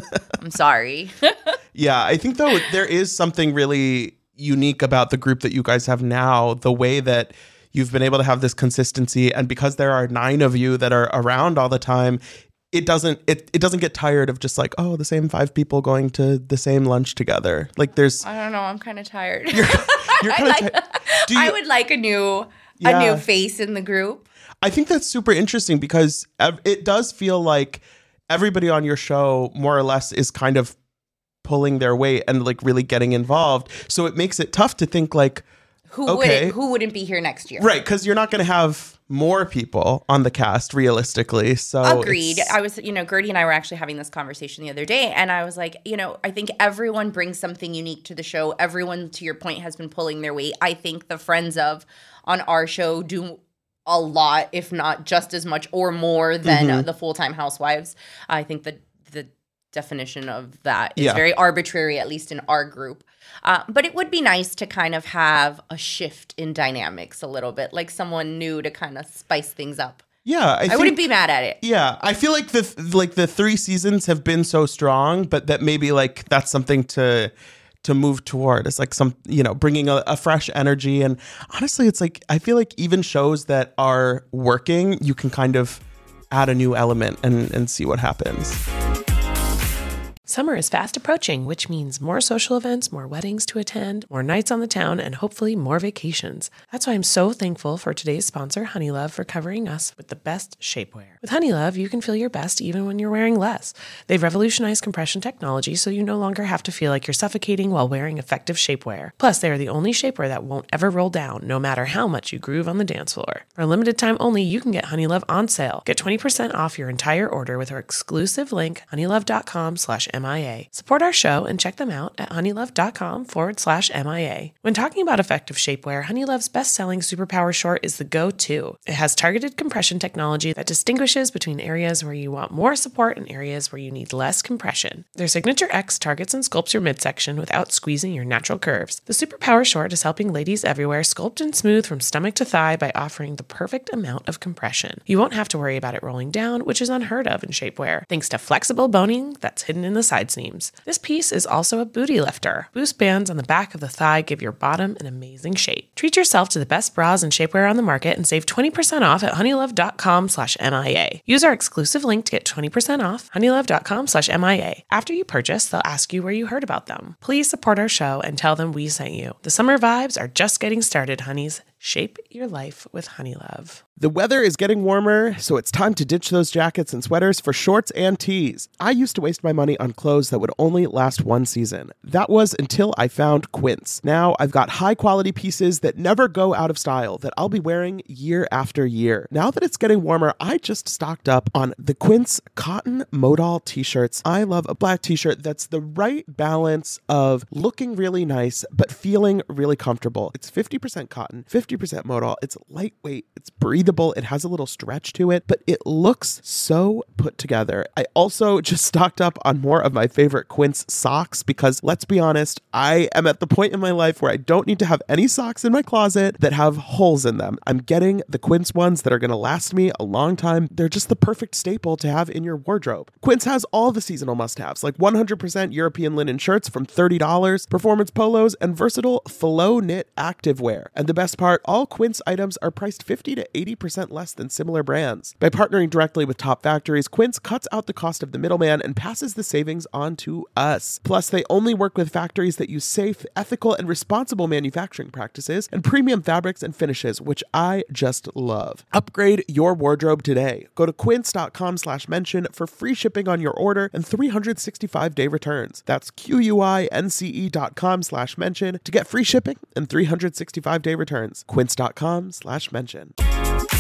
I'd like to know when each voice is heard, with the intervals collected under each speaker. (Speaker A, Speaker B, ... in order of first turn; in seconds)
Speaker A: 0.4-1.6, 18.2-24.3, 35.9-37.7, 41.8-70.0, 70.7-71.6
Speaker B: 1.8-12.2, 12.7-18.2, 19.5-21.6, 22.8-23.2, 24.6-30.8, 31.4-35.5, 36.1-36.5, 37.6-42.5, 56.4-56.9, 70.2-71.0, 71.6-77.3, 77.8-88.6, 174.0-263.1
Speaker C: 90.2-173.8